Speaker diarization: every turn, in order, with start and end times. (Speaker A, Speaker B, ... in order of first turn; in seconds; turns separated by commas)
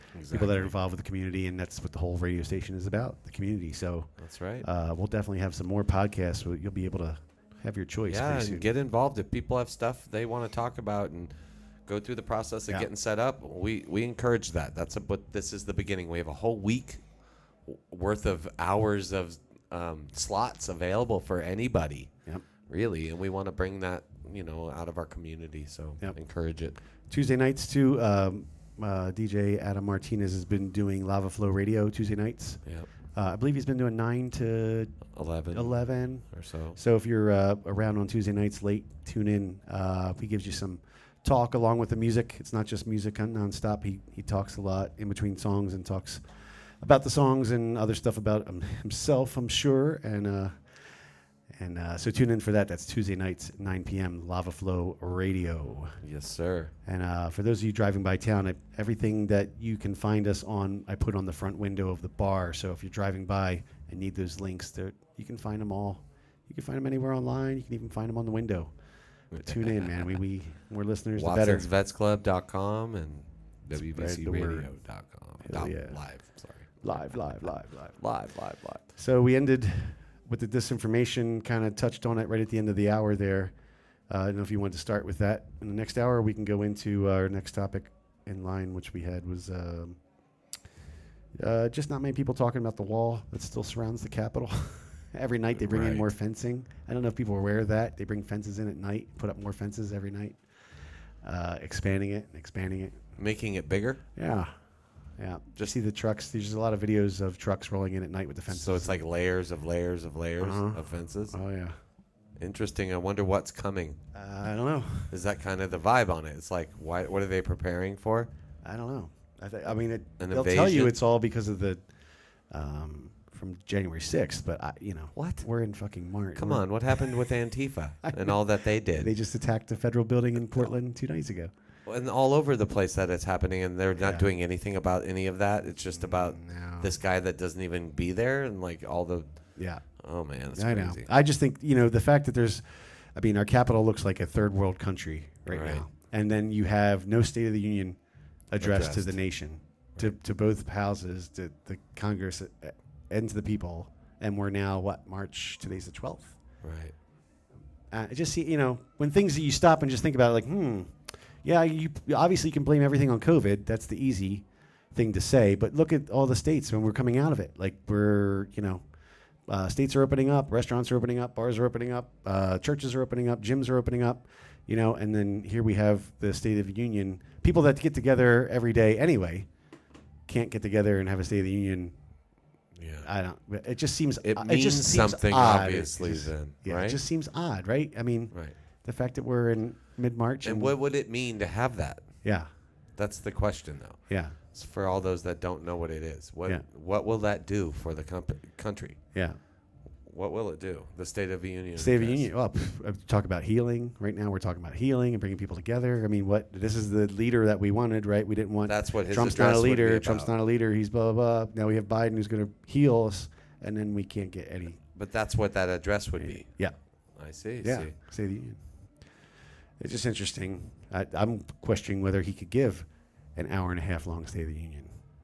Speaker A: 0.1-0.7, Speaker B: 0.3-4.1, Speaker A: 4.2-4.7, Speaker B: 4.6-8.7, Speaker A: 8.1-11.3, Speaker A: 11.9-17.0, Speaker A: 17.7-22.1, Speaker A: 22.7-26.8, Speaker B: 27.1-32.6, Speaker B: 33.1-35.0, Speaker A: 35.1-36.8, Speaker B: 35.5-46.2, Speaker B: 46.8-50.5, Speaker B: 51.5-56.0, Speaker A: 56.0-56.7, Speaker B: 56.9-68.7, Speaker A: 69.3-70.2, Speaker B: 69.4-71.7, Speaker A: 71.2-78.8, Speaker B: 73.8-74.7, Speaker B: 75.5-76.0, Speaker B: 76.8-78.0, Speaker B: 79.0-83.5, Speaker B: 84.1-90.0, Speaker B: 91.4-100.4, Speaker A: 95.6-96.0, Speaker B: 101.2-103.0, Speaker A: 103.2-104.0, Speaker B: 104.2-104.5, Speaker B: 105.2-109.0, Speaker A: 108.5-111.4, Speaker B: 110.4-111.8, Speaker A: 112.4-114.0, Speaker B: 114.1-115.1, Speaker A: 115.1-118.3, Speaker B: 118.6-121.8, Speaker A: 120.2-121.0, Speaker B: 122.5-127.1, Speaker A: 125.2-125.5, Speaker A: 126.4-129.1, Speaker B: 128.1-128.4, Speaker B: 129.0-131.5, Speaker A: 131.9-139.3, Speaker B: 134.0-134.2, Speaker B: 135.9-136.9, Speaker B: 139.6-139.8, Speaker A: 140.0-141.1, Speaker B: 140.6-148.0, Speaker A: 145.5-145.9, Speaker B: 148.5-156.4, Speaker A: 148.6-149.2, Speaker A: 156.6-156.9, Speaker B: 157.9-168.8, Speaker B: 169.5-179.5, Speaker B: 180.3-181.9, Speaker A: 182.8-183.1, Speaker B: 183.0-190.7, Speaker A: 184.2-187.0, Speaker A: 190.4-192.1, Speaker A: 193.0-199.0, Speaker B: 194.1-194.4, Speaker A: 200.1-202.3, Speaker B: 201.8-214.8, Speaker A: 208.7-210.3, Speaker A: 214.9-216.5, Speaker B: 216.2-216.7, Speaker A: 217.2-217.9, Speaker B: 217.6-218.6, Speaker B: 219.8-224.9